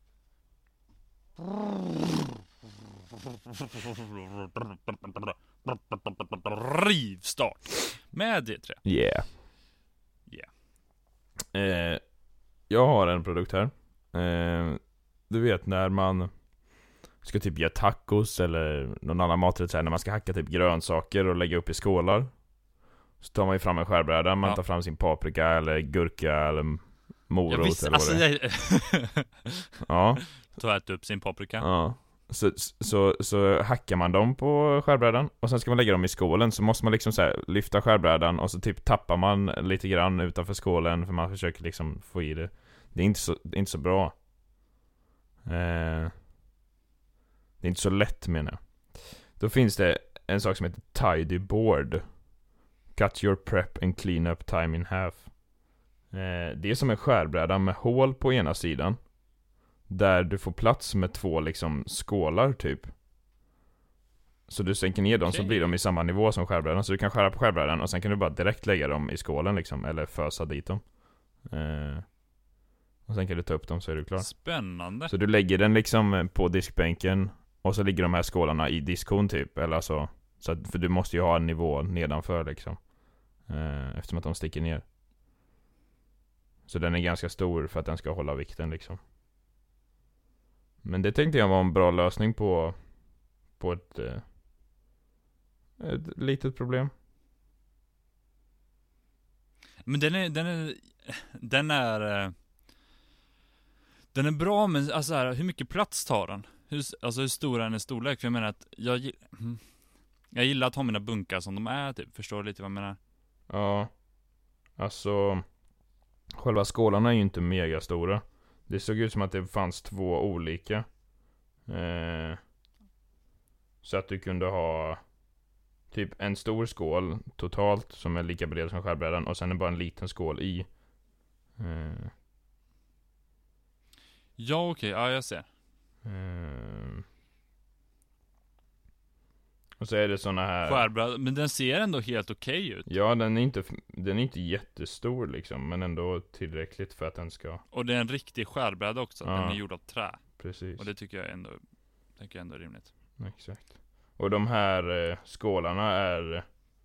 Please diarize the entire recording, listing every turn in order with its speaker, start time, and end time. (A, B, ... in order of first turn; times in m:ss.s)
0:04.9-0:09.4 A
0:08.8-0:09.3 B
0:10.3-0:10.5 A
0:11.5-0:16.6 B
0:17.2-0:22.7 B
0:23.2-0:28.4 B
0:27.5-0:29.3 A
0:29.8-0:30.4 B
0:30.2-0:31.7 A
0:31.6-0:44.2 B
0:45.4-0:46.2 B
0:47.6-0:52.3 B
0:52.9-0:55.4 B
0:56.1-0:59.2 B
0:59.9-1:02.9 B
1:04.5-1:12.2 B
1:05.2-1:05.8 A
1:13.1-1:24.9 B
1:14.2-1:15.1 A
1:26.7-1:29.0 B
1:30.8-1:34.3 B
1:35.8-1:36.9 B
1:39.9-1:42.3 A
1:44.1-1:53.0 A
1:53.5-1:54.0 B
1:54.8-1:55.5 B
1:56.4-2:01.0 B
2:01.6-2:02.4 B
2:03.8-2:05.2 B
2:05.9-2:12.1 B
2:14.4-2:15.5 A
2:16.0-2:17.0 B
2:19.8-2:20.9 B
2:20.6-2:22.9 A
2:22.9-2:27.6 B
2:27.7-2:32.9 A
2:29.2-2:29.7 B
2:30.2-2:30.9 B
2:33.2-2:36.4 B